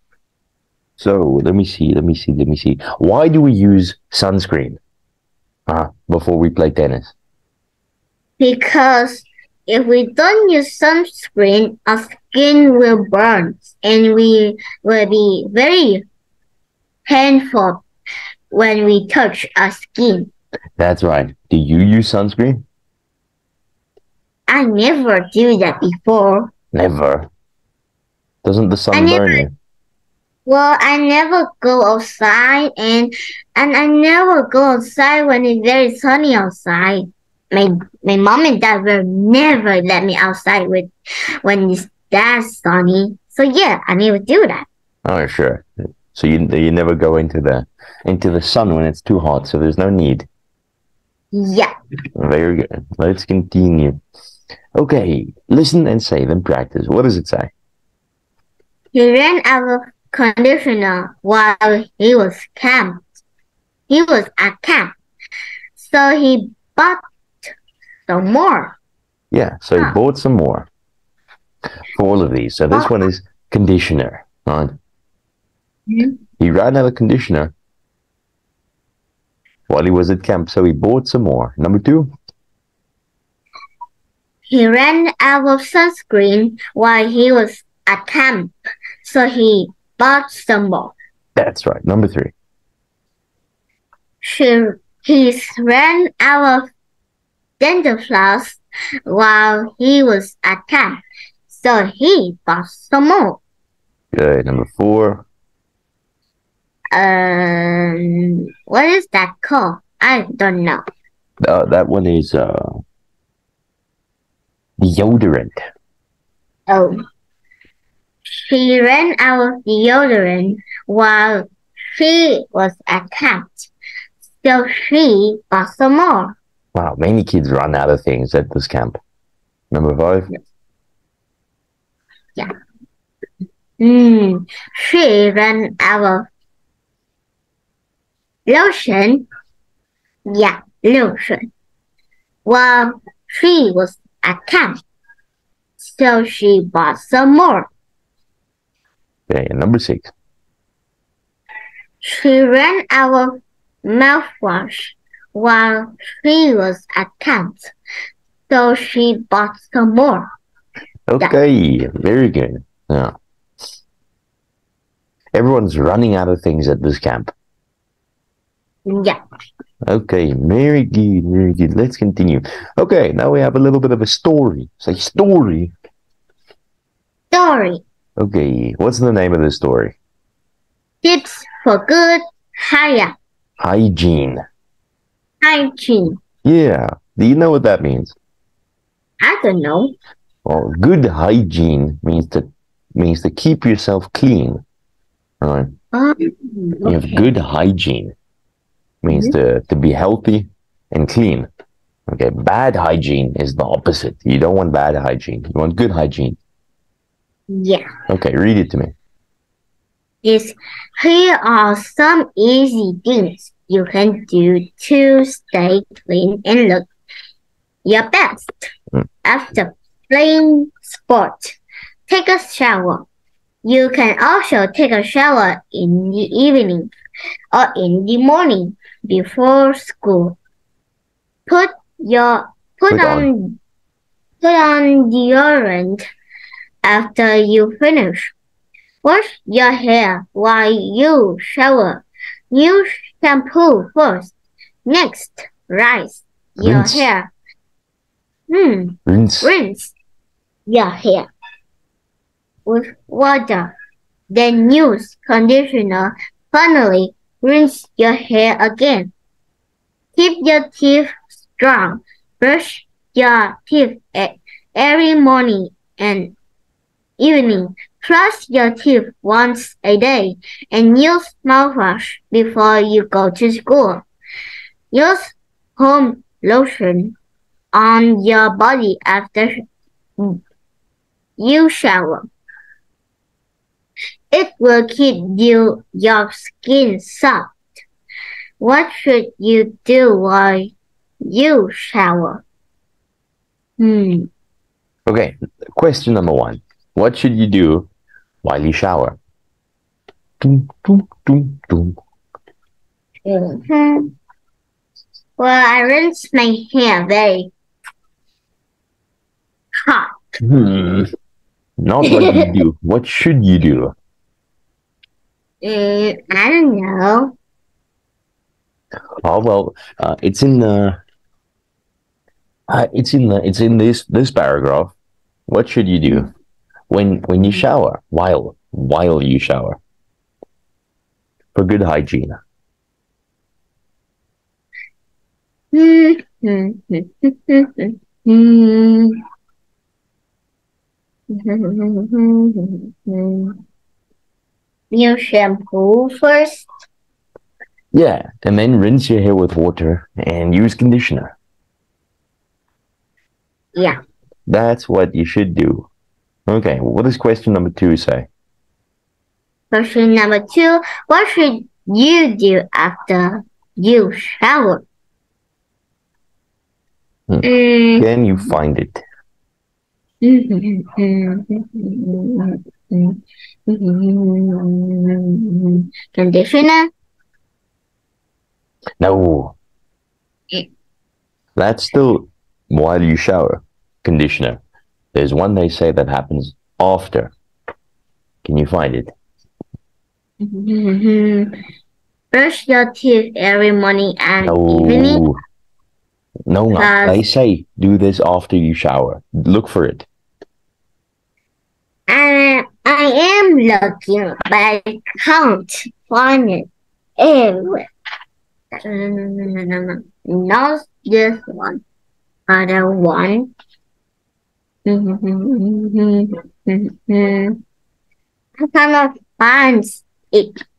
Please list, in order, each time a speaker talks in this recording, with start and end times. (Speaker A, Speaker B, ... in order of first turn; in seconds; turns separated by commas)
Speaker A: 1.0-4.8, Speaker A: 5.7-7.1, Speaker B: 8.4-16.1, Speaker B: 17.1-17.8, Speaker B: 18.5-20.3, Speaker A: 20.8-22.6, Speaker B: 24.5-26.5, Speaker A: 26.7-27.3, Speaker A: 28.4-29.5, Speaker B: 28.9-29.4, Speaker B: 30.5-40.9, Speaker B: 41.4-44.7, Speaker A: 45.0-50.3, Speaker B: 51.3-51.7, Speaker A: 52.2-54.0, Speaker A: 54.8-57.5, Speaker B: 58.9-63.0, Speaker B: 63.9-65.0, Speaker B: 65.8-67.5, Speaker B: 68.1-68.8, Speaker A: 69.3-70.7, Speaker A: 71.9-74.8, Speaker B: 75.9-76.2, Speaker A: 76.4-77.5, Speaker A: 79.7-82.1, Speaker B: 84.5-91.0, Speaker A: 91.4-92.3, Speaker B: 94.2-96.7, Speaker B: 97.6-103.4, Speaker A: 104.1-105.2, Speaker B: 106.9-110.8, Speaker A: 111.4-112.8, Speaker A: 114.8-115.6, Speaker B: 116.7-117.0, Speaker B: 118.3-123.7, Speaker B: 124.4-126.4, Speaker A: 126.8-129.0, Speaker A: 129.7-130.3, Speaker B: 133.8-136.3, Speaker B: 138.5-139.3, Speaker B: 140.3-141.5, Speaker B: 142.4-144.8, Speaker B: 145.8-147.7, Speaker A: 149.3-150.1, Speaker B: 152.0-157.7, Speaker B: 158.5-160.3, Speaker A: 161.1-163.1, Speaker A: 165.3-167.3, Speaker B: 168.9-169.2, Speaker A: 169.9-175.7, Speaker B: 177.3-177.8, Speaker A: 178.2-179.9, Speaker B: 181.0-183.1, Speaker A: 183.6-184.4, Speaker B: 185.4-186.2, Speaker A: 186.4-188.2, Speaker B: 189.2-189.9, Speaker A: 190.4-194.6, Speaker A: 195.4-195.7, Speaker B: 195.9-197.3, Speaker A: 196.8-198.1, Speaker A: 199.0-201.5, Speaker B: 199.1-199.3, Speaker A: 202.1-206.4, Speaker B: 207.5-207.9, Speaker A: 208.1-208.9, Speaker B: 210.2-216.9, Speaker B: 217.8-218.7, Speaker B: 219.2-223.1, Speaker B: 223.6-226.9, Speaker B: 227.5-230.4, Speaker B: 231.5-233.6, Speaker A: 232.9-233.3, Speaker B: 234.4-236.1, Speaker B: 236.8-238.3, Speaker B: 239.0-244.3, Speaker B: 244.8-247.3, Speaker A: 246.6-247.1, Speaker B: 248.5-249.9, Speaker A: 249.1-249.5, Speaker B: 250.7-251.3, Speaker B: 252.7-253.7, Speaker B: 254.3-259.1, Speaker B: 260.1-266.3, Speaker B: 267.2-274.1, Speaker B: 274.9-277.2, Speaker B: 277.7-279.6, Speaker B: 281.4-282.3, Speaker B: 284.3-287.6, Speaker B: 288.6-292.4, Speaker B: 293.8-294.3, Speaker A: 295.1-297.9, Speaker A: 298.4-299.2, Speaker A: 300.4-302.0, Speaker B: 303.2-304.1, Speaker B: 305.4-307.5, Speaker B: 309.9-310.1, Speaker A: 310.4-311.1, Speaker A: 311.8-313.9, Speaker B: 312.0-312.5, Speaker B: 315.6-317.4, Speaker A: 319.2-321.0, Speaker A: 322.7-324.9, Speaker A: 325.5-326.3, Speaker A: 326.9-329.8, Speaker A: 331.5-332.4, Speaker B: 335.7-339.2, Speaker B: 341.3-343.6, Speaker B: 344.9-346.7, Speaker A: 347.9-351.4, Speaker A: 354.5-355.9, Speaker A: 356.5-358.3, Speaker B: 359.7-364.8, Speaker A: 367.3-369.0, Speaker B: 367.4-368.5, Speaker B: 370.2-376.9, Speaker A: 379.0-379.6, Speaker A: 381.6-384.6, Speaker A: 385.1-387.3, Speaker A: 388.4-389.1, Speaker B: 390.4-391.6, Speaker B: 392.3-395.2, Speaker A: 394.4-395.4, Speaker A: 396.5-400.1, Speaker B: 396.8-397.2, Speaker B: 402.1-407.9, Speaker B: 408.7-411.8, Speaker B: 412.5-413.5, Speaker B: 414.9-417.6, Speaker B: 418.6-420.6